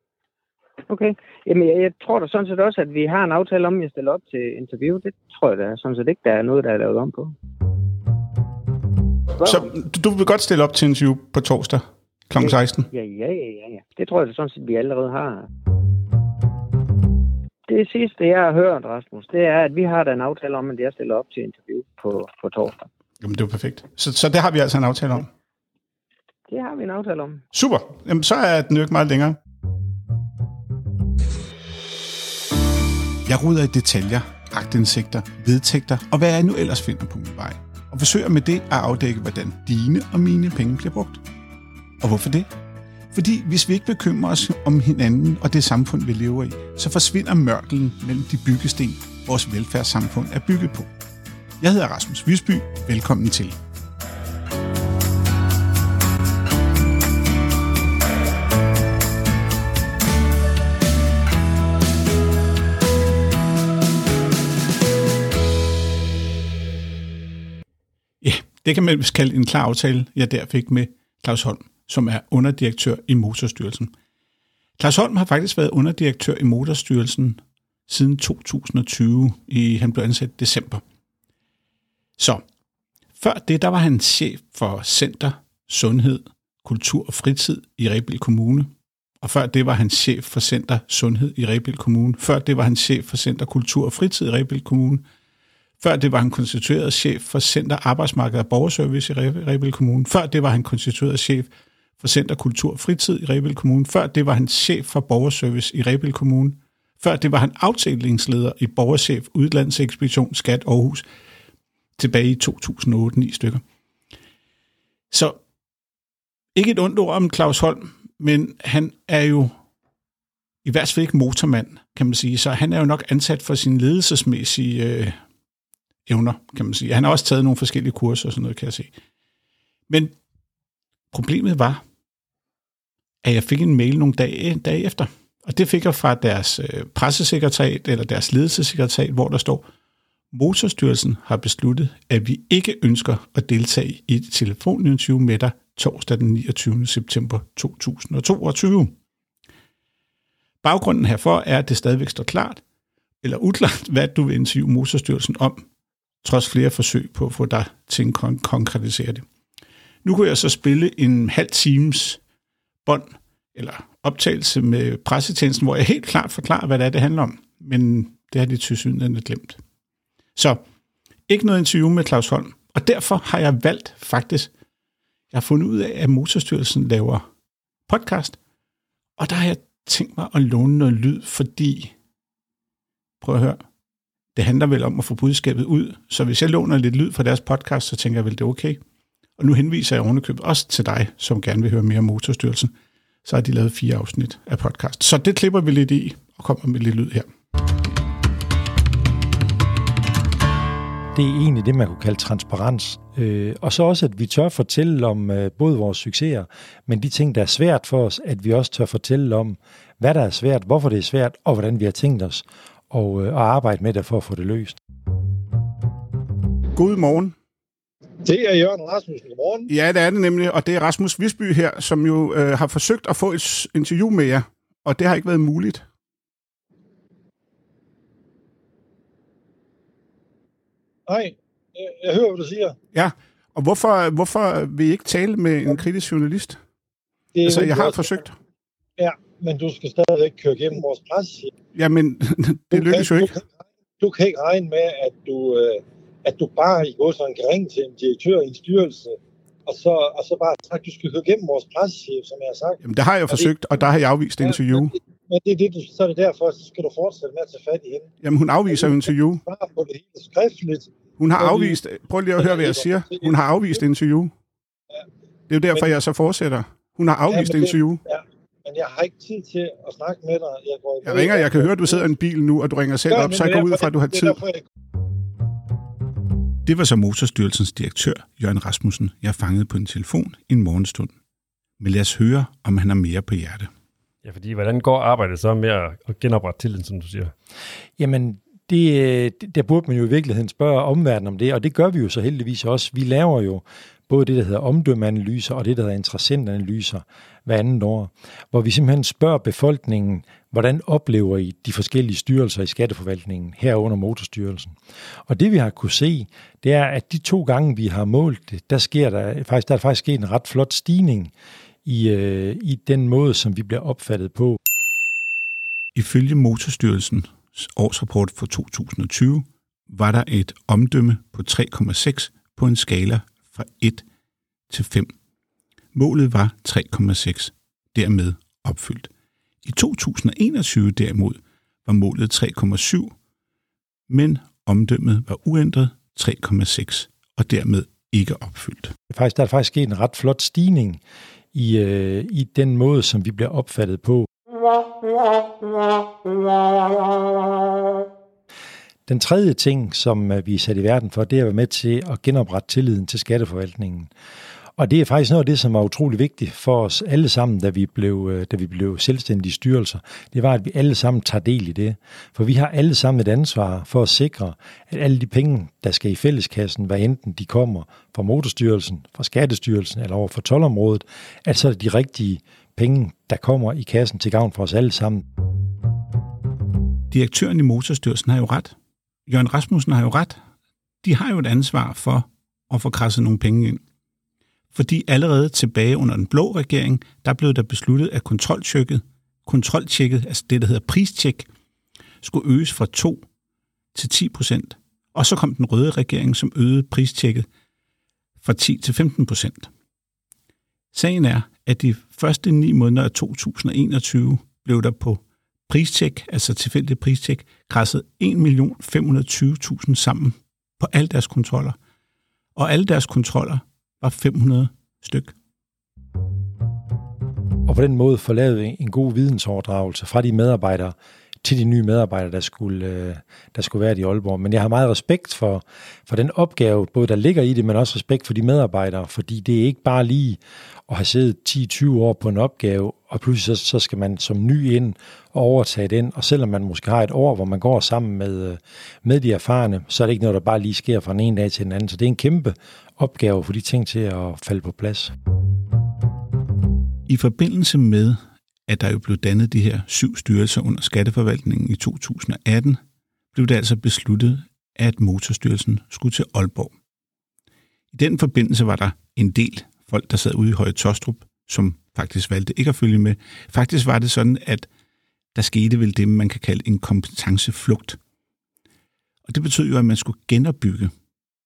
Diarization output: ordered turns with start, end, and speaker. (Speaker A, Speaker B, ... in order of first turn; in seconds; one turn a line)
Speaker A: 0.9-7.3
Speaker A: 9.4-9.7
Speaker B: 9.4-12.9
Speaker A: 12.4-15.5
Speaker A: 17.7-22.8
Speaker B: 23.2-25.3
Speaker A: 26.5-27.4
Speaker B: 27.5-29.4
Speaker B: 33.3-41.2
Speaker B: 42.0-42.5
Speaker B: 43.1-50.9
Speaker B: 51.6-53.6
Speaker B: 68.2-73.9
Speaker B: 74.8-80.8
Speaker B: 82.2-82.4
Speaker B: 83.2-88.7
Speaker B: 89.2-95.0
Speaker B: 95.8-111.0
Speaker B: 112.0-113.6
Speaker B: 115.1-115.4
Speaker B: 116.5-119.5
Speaker B: 120.6-125.2
Speaker B: 126.1-128.9
Speaker B: 131.1-131.8
Speaker B: 133.2-139.7
Speaker B: 140.3-148.9
Speaker B: 150.6-152.6
Speaker B: 153.2-155.7
Speaker B: 156.2-159.2
Speaker B: 160.0-162.2
Speaker B: 162.9-169.6
Speaker B: 170.4-170.6
Speaker B: 171.3-174.5
Speaker B: 175.3-177.2
Speaker B: 177.9-178.4
Speaker B: 179.2-181.9
Speaker B: 183.2-183.6
Speaker B: 184.3-188.8
Speaker B: 189.4-192.7
Speaker B: 193.2-197.3
Speaker C: 201.1-214.8
Speaker B: 216.8-217.3
Speaker D: 218.2-219.7
Speaker B: 219.7-225.8
Speaker D: 231.1-232.8
Speaker B: 232.9-236.6
Speaker D: 237.3-238.2
Speaker B: 237.4-238.3
Speaker D: 239.0-241.5
Speaker B: 241.8-243.3
Speaker D: 242.7-249.2
Speaker D: 249.7-252.8
Speaker B: 252.8-254.9
Speaker D: 254.4-258.1
Speaker B: 258.2-259.4
Speaker D: 258.7-261.8
Speaker B: 261.2-264.3
Speaker D: 262.4-263.3
Speaker B: 265.5-268.0
Speaker D: 267.3-272.1
Speaker B: 271.0-274.4
Speaker D: 273.1-274.6
Speaker B: 276.7-281.1
Speaker B: 281.8-283.7
Speaker E: 284.2-287.3
Speaker C: 288.0-304.8
Speaker C: 305.3-311.3
Speaker C: 311.9-314.6
Speaker B: 315.9-324.0
Speaker B: 324.7-325.1
Speaker B: 325.9-329.1
Speaker B: 329.6-333.1
Speaker B: 334.1-338.9
Speaker C: 339.1-341.0
Speaker C: 341.5-344.3
Speaker C: 349.1-354.1
Speaker C: 354.8-375.2
Speaker B: 377.1-378.8
Speaker B: 379.3-380.4
Speaker B: 381.0-383.8
Speaker B: 384.7-391.5
Speaker B: 392.2-393.2
Speaker B: 393.9-397.5
Speaker B: 398.4-399.7
Speaker B: 400.9-411.8
Speaker B: 412.6-415.4
Speaker C: 417.7-445.1
Speaker B: 447.1-452.8
Speaker B: 453.3-456.7
Speaker B: 457.9-464.7
Speaker B: 465.4-468.0
Speaker B: 469.3-470.9